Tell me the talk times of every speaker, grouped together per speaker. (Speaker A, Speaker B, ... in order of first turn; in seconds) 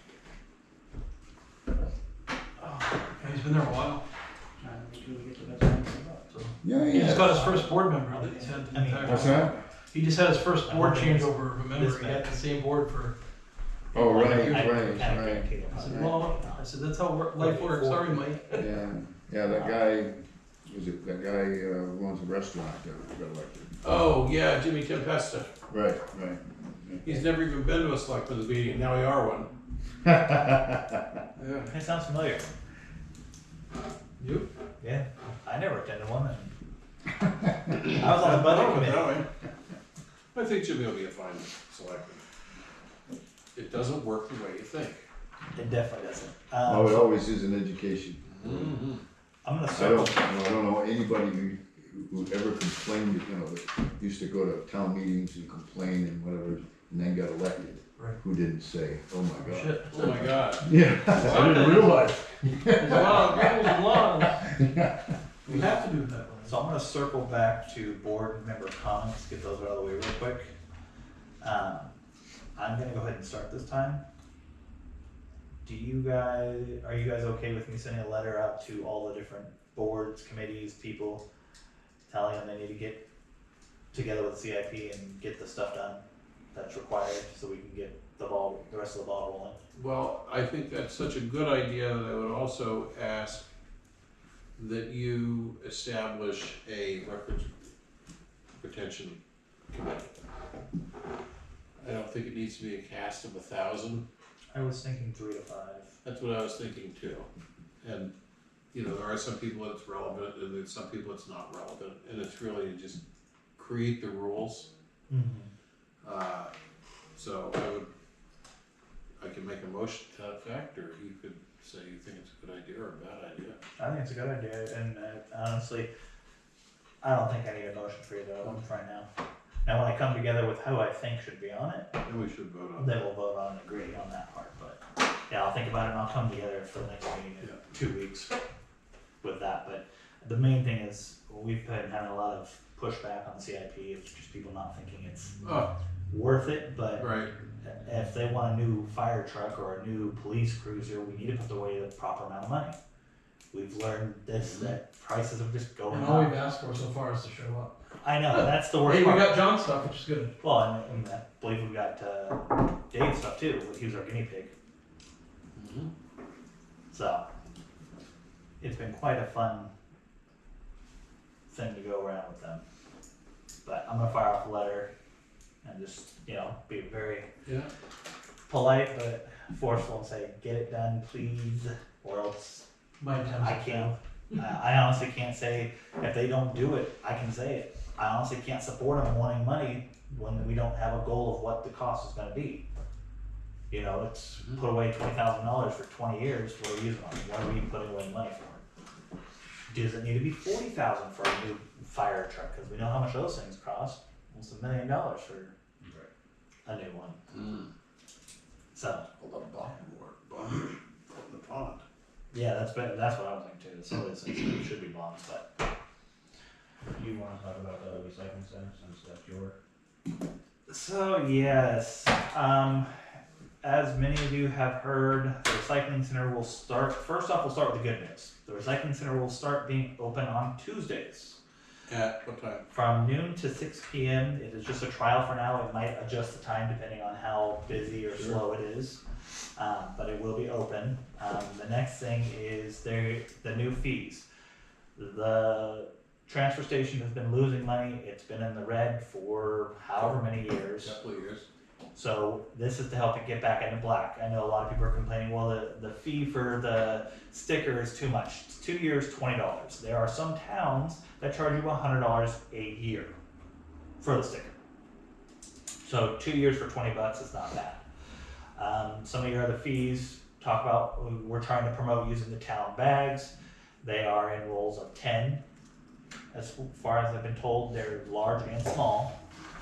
Speaker A: 3.1-4.0, 6.3-13.1, 14.0-18.7, 34.2-34.5, 59.4-60.2, 61.2-61.9, 62.8-64.5, 65.5-66.6, 155.9-157.7, 158.3-160.3, 183.0-184.0
Speaker B: 4.6-5.9, 216.9-219.5
Speaker C: 6.6-7.4, 9.0-9.6, 13.9-16.1, 18.6-23.7, 25.7-27.2, 30.0-31.0, 46.6-48.8, 49.7-65.2
Speaker D: 7.1-9.6, 10.6-12.4, 13.9-16.7, 17.4-18.3, 19.5-19.8, 31.7-32.5, 34.8-36.5, 37.8-39.2, 45.5-47.1, 49.4-50.6, 66.5-70.5, 71.4-72.0, 72.6-74.0, 75.6-81.2, 82.1-83.0, 83.9-86.0, 86.5-89.6, 104.5-106.0, 115.1-115.5, 123.8-125.9, 127.0-129.1, 129.7-131.9, 132.8-138.3, 139.2-145.4, 146.1-152.8, 153.5-156.4, 158.0-159.4, 160.4-164.5, 166.9-167.3, 168.6-169.7, 171.5-172.6, 173.7-174.9, 175.6-177.3, 178.5-182.7, 183.4-192.6, 193.7-198.6, 199.7-205.5, 206.7-207.2, 208.7-209.1, 212.3-215.5, 220.7-222.9, 223.6-231.4, 232.7-239.0, 239.6-244.3, 245.0-250.9, 251.9-263.1, 264.0-264.5, 265.8-267.8, 268.6-275.4, 276.3-279.1
Speaker E: 23.8-25.5, 27.0-29.5, 31.4-31.8, 37.8-39.3, 40.3-42.3, 43.5-45.0, 48.3-49.0, 59.9-62.0, 89.8-93.5, 94.6-97.5, 98.6-99.2, 99.7-100.2, 101.8-104.0, 106.0-107.3, 107.8-108.1, 108.7-113.0, 113.6-114.7, 116.0-116.5, 117.2-117.9, 119.2-123.6, 132.0-133.0, 145.4-145.7, 147.0-147.3, 154.3-154.8, 165.6-165.9, 177.4-177.7, 207.3-207.7, 209.2-211.8, 231.9-232.7, 238.1-238.4, 250.8-251.5